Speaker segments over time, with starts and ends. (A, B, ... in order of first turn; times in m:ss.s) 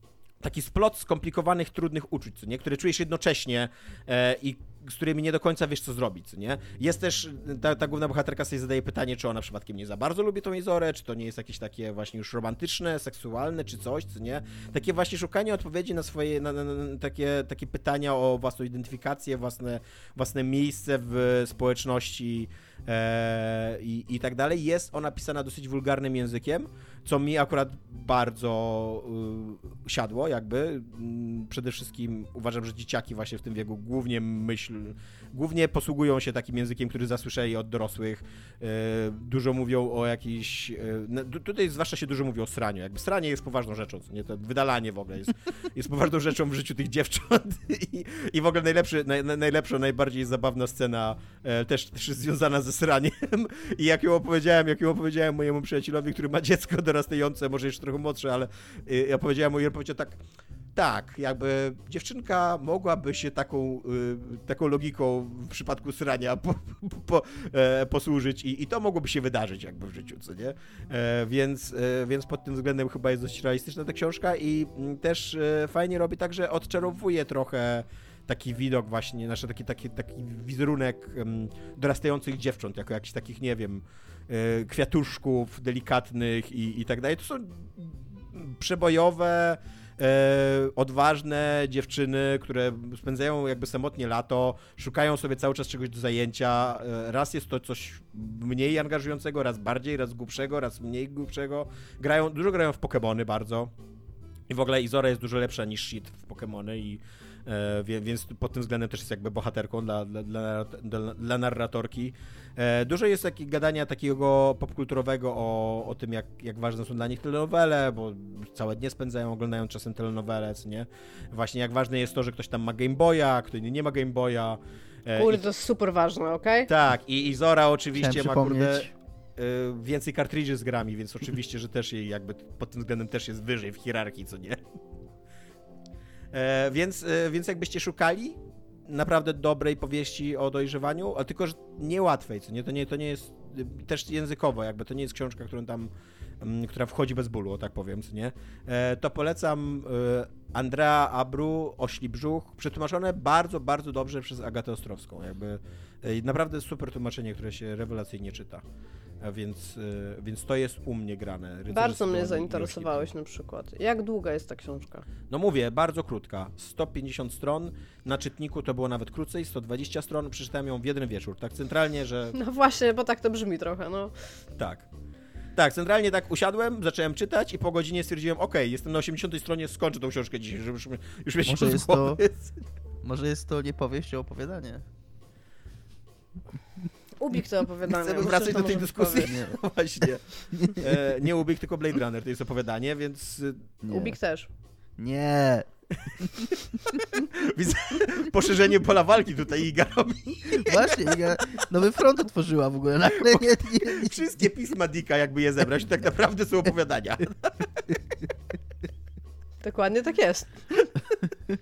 0:00.4-1:00.2 A
1:00.7-1:43.7 A
1:44.5-2:05.4 A
2:05.2-2:06.7 B
2:06.7-2:14.6 A
2:07.9-2:08.9 C
2:16.3-2:25.9 A
2:26.4-2:38.6 A
2:39.2-2:43.1 A
2:41.7-2:45.0 B
2:45.3-2:52.4 A
2:52.3-2:54.1 B
2:54.6-2:54.8 A
2:55.6-3:02.5 A
3:01.4-3:02.2 C
3:03.0-3:04.8 C
3:07.2-3:09.3 B
3:08.0-3:13.6 A
3:09.2-3:09.6 C
3:10.5-3:10.9 C
3:13.8-3:14.2 C
3:13.9-3:14.5 B
3:15.0-3:17.0 C
3:16.9-3:21.6 A
3:20.5-3:24.3 C
3:23.2-3:27.9 A
3:29.6-3:30.6 B